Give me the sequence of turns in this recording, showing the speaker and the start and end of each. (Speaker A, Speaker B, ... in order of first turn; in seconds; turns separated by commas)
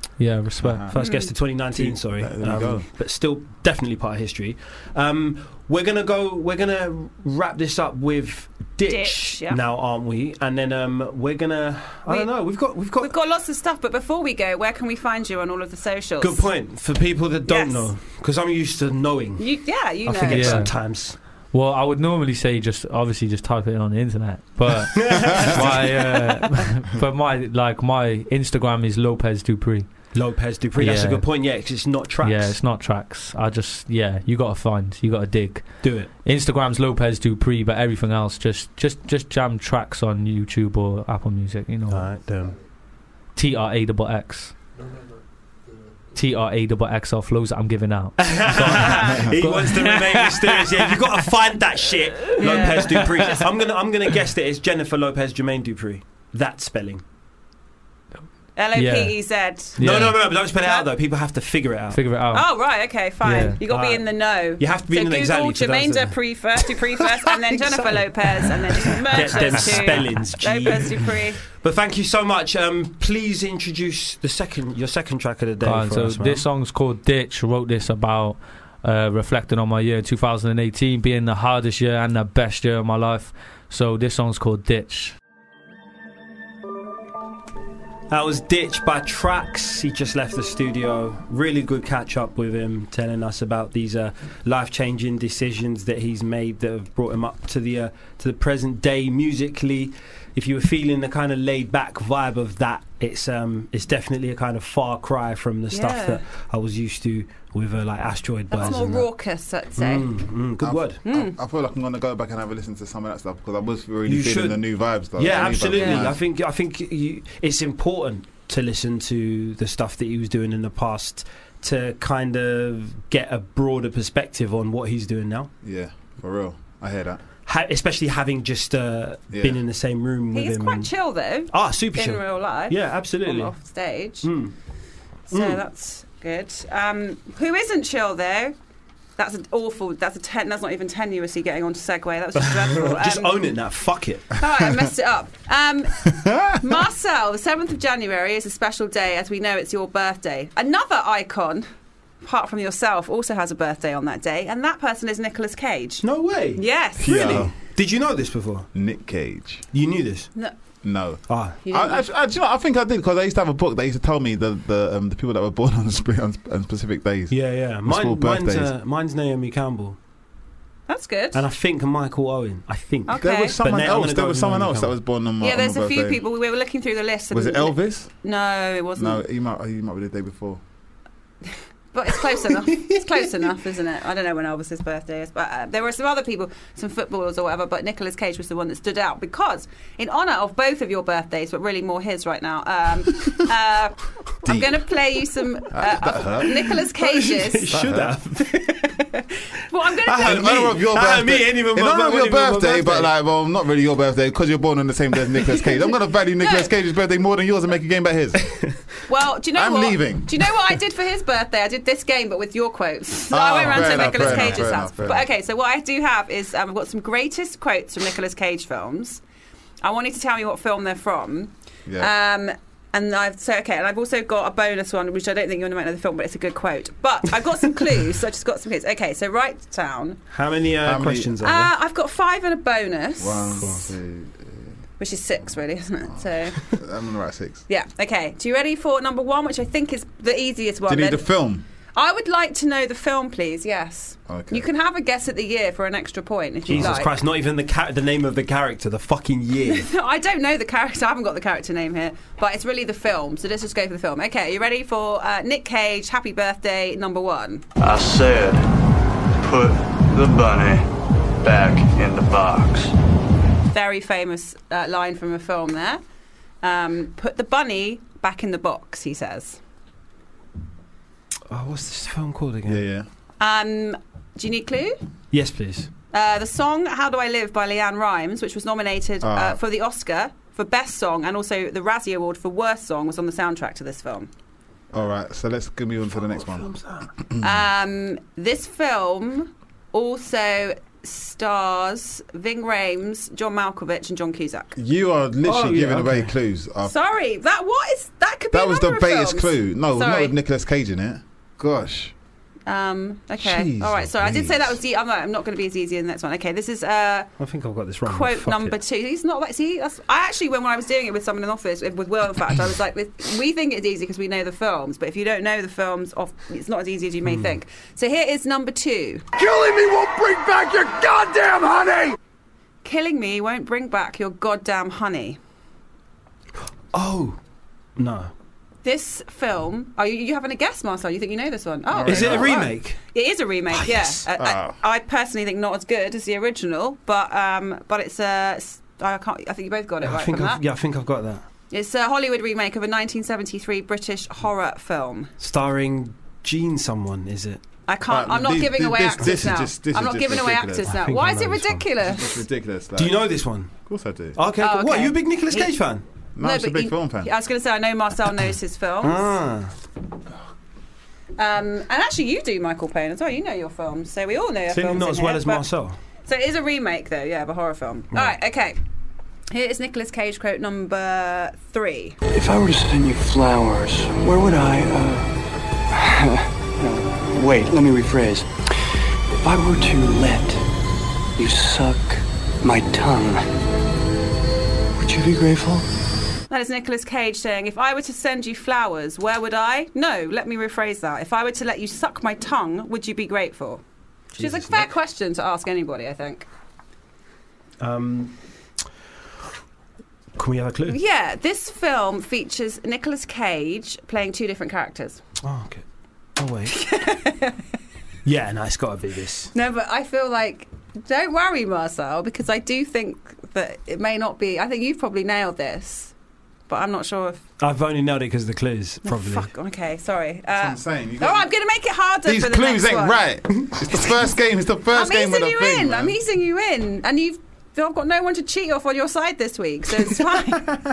Speaker A: 0.2-0.9, Speaker B: 0.6-0.9, Speaker C: 0.9-13.1, Speaker D: 0.9-1.3, Speaker B: 1.5-2.9, Speaker D: 8.9-9.6, Speaker D: 12.1-16.6, Speaker C: 16.2-19.5, Speaker D: 17.5-17.9, Speaker D: 19.4-20.7, Speaker C: 20.0-21.2, Speaker A: 20.3-30.1, Speaker C: 24.9-26.6, Speaker C: 30.1-32.6, Speaker A: 30.8-31.3, Speaker A: 32.2-42.1, Speaker C: 35.8-36.1, Speaker C: 41.9-42.6, Speaker A: 43.4-44.6, Speaker A: 46.1-50.9, Speaker C: 48.2-57.0, Speaker D: 52.4-53.5, Speaker A: 52.4-52.9, Speaker D: 58.6-59.8, Speaker A: 58.7-59.2, Speaker A: 59.8-60.4, Speaker C: 59.8-62.0, Speaker D: 60.5-60.9, Speaker A: 61.9-62.5, Speaker D: 62.3-71.4, Speaker A: 63.2-63.6, Speaker C: 63.6-66.3, Speaker C: 67.5-76.4, Speaker A: 75.6-85.1, Speaker C: 88.1-109.1, Speaker D: 105.7-106.2, Speaker D: 108.5-110.1, Speaker C: 109.8-111.0, Speaker B: 110.6-116.2, Speaker D: 111.0-111.4, Speaker C: 114.1-125.5, Speaker D: 115.3-116.0, Speaker B: 125.6-127.2, Speaker C: 127.5-130.9, Speaker B: 129.3-129.6, Speaker D: 130.3-134.3, Speaker C: 131.5-133.5, Speaker C: 134.2-134.5, Speaker D: 135.3-138.6, Speaker C: 135.3-135.6, Speaker D: 139.2-143.3, Speaker C: 142.4-144.4, Speaker D: 144.4-151.7, Speaker B: 146.2-146.6, Speaker D: 152.2-157.5, Speaker C: 156.0-158.7, Speaker B: 157.0-157.5, Speaker B: 158.7-159.7, Speaker C: 159.7-160.3, Speaker B: 160.8-168.7, Speaker C: 161.3-161.6, Speaker D: 161.6-162.1, Speaker C: 167.3-170.0, Speaker D: 170.9-171.4, Speaker C: 171.3-174.9, Speaker D: 173.1-173.6, Speaker B: 173.2-176.2, Speaker D: 175.4-179.2, Speaker B: 177.3-178.1, Speaker B: 179.0-180.6, Speaker D: 181.9-197.7, Speaker B: 194.4-194.9, Speaker B: 195.7-196.7, Speaker C: 196.9-199.0, Speaker B: 197.7-198.2, Speaker D: 199.1-200.6, Speaker C: 200.0-203.1, Speaker B: 200.2-208.6, Speaker D: 206.4-206.7, Speaker D: 209.1-219.2, Speaker B: 209.5-210.4, Speaker B: 213.3-215.3, Speaker C: 213.7-214.6, Speaker D: 219.8-230.2, Speaker B: 221.9-222.1, Speaker C: 230.3-231.7, Speaker B: 230.8-231.3, Speaker D: 231.4-233.9, Speaker B: 233.2-234.8, Speaker C: 233.6-233.9, Speaker D: 235.0-236.6, Speaker B: 236.1-237.6, Speaker D: 237.7-241.3, Speaker B: 240.9-241.6, Speaker D: 241.9-247.1, Speaker B: 244.3-244.7, Speaker C: 246.7-249.9, Speaker D: 249.7-257.6, Speaker E: 257.8-258.6, Speaker E: 259.4-260.9, Speaker E: 261.4-262.9, Speaker D: 263.7-266.0, Speaker D: 266.6-269.6, Speaker C: 271.5-272.8, Speaker B: 272.7-273.1, Speaker D: 273.4-275.0, Speaker C: 275.3-275.9, Speaker D: 276.1-284.3, Speaker B: 279.2-279.6, Speaker B: 284.9-286.7, Speaker C: 286.2-287.1, Speaker D: 287.4-294.8, Speaker B: 294.8-296.9, Speaker C: 295.4-296.3, Speaker D: 296.8-300.4, Speaker B: 298.5-302.1, Speaker D: 302.7-307.3, Speaker B: 303.4-304.8, Speaker C: 307.4-308.8, Speaker D: 308.1-319.2, Speaker C: 317.2-317.6, Speaker C: 319.4-322.1, Speaker D: 322.8-325.4, Speaker C: 326.9-327.4, Speaker C: 328.0-328.3, Speaker D: 328.8-340.6, Speaker B: 331.9-332.7, Speaker C: 332.1-333.0, Speaker C: 333.7-334.2, Speaker B: 334.4-334.8, Speaker C: 340.0-341.4, Speaker D: 341.7-345.3, Speaker C: 345.4-347.6, Speaker D: 347.9-352.4, Speaker B: 348.1-350.9, Speaker C: 350.9-351.9, Speaker B: 352.0-354.4, Speaker C: 353.0-353.7, Speaker C: 354.4-356.0, Speaker D: 354.6-355.8, Speaker B: 356.4-357.3, Speaker D: 356.4-359.3, Speaker C: 359.0-359.7, Speaker D: 361.4-365.6, Speaker C: 364.7-366.0, Speaker D: 366.3-368.8, Speaker D: 369.5-372.2, Speaker E: 372.3-378.7, Speaker E: 379.4-380.7, Speaker E: 381.4-383.5, Speaker E: 385.0-385.9, Speaker D: 386.5-393.8, Speaker C: 394.3-394.9, Speaker D: 394.4-396.5, Speaker C: 397.8-398.4, Speaker C: 400.4-401.0, Speaker D: 400.9-405.2, Speaker C: 405.4-405.8, Speaker C: 406.4-406.8, Speaker D: 406.7-407.6, Speaker C: 408.2-409.5, Speaker D: 409.5-416.1, Speaker D: 416.7-417.4, Speaker C: 417.6-419.5, Speaker D: 419.1-423.2, Speaker B: 420.6-421.5, Speaker B: 422.2-426.2, Speaker D: 424.9-430.8